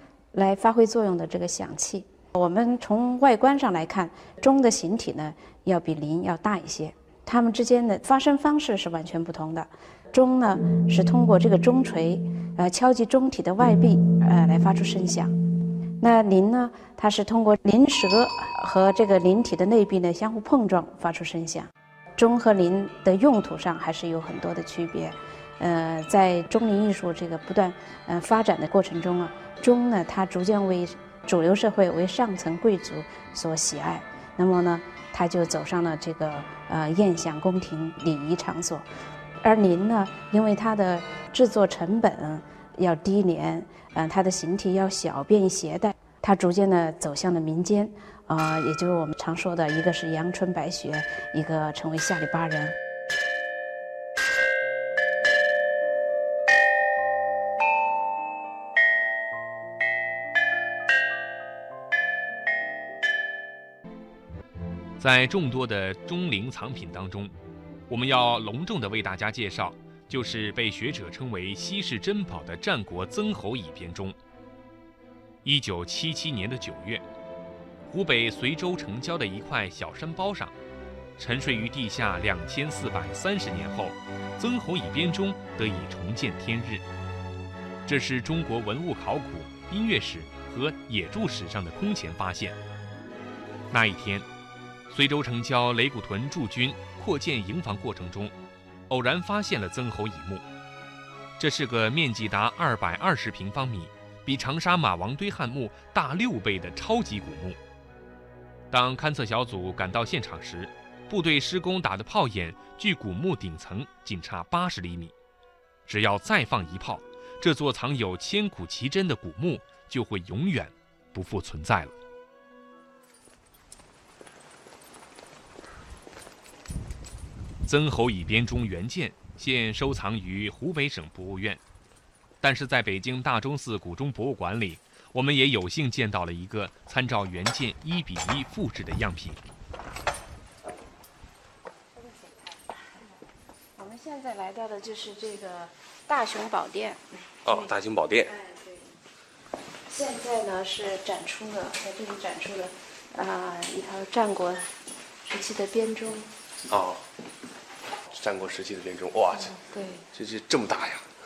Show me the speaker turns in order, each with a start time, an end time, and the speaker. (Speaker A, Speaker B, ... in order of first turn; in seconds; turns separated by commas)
Speaker A: 0.3-15.3, Speaker A: 16.0-38.9, Speaker A: 39.4-52.8, Speaker B: 65.0-67.3, Speaker B: 67.9-74.2, Speaker B: 75.4-77.0, Speaker B: 77.9-80.5, Speaker B: 81.2-86.9, Speaker B: 87.9-92.6, Speaker B: 93.7-94.3, Speaker B: 94.9-98.3, Speaker B: 98.9-100.4, Speaker B: 101.4-107.6, Speaker B: 108.7-115.1, Speaker B: 115.9-121.9, Speaker B: 127.7-131.6, Speaker B: 132.4-139.4, Speaker A: 143.8-147.7, Speaker C: 147.4-148.3, Speaker A: 148.3-148.9, Speaker A: 149.9-154.7, Speaker A: 155.2-156.3, Speaker C: 156.7-157.0, Speaker C: 158.1-159.6, Speaker A: 159.5-160.1, Speaker C: 160.1-161.1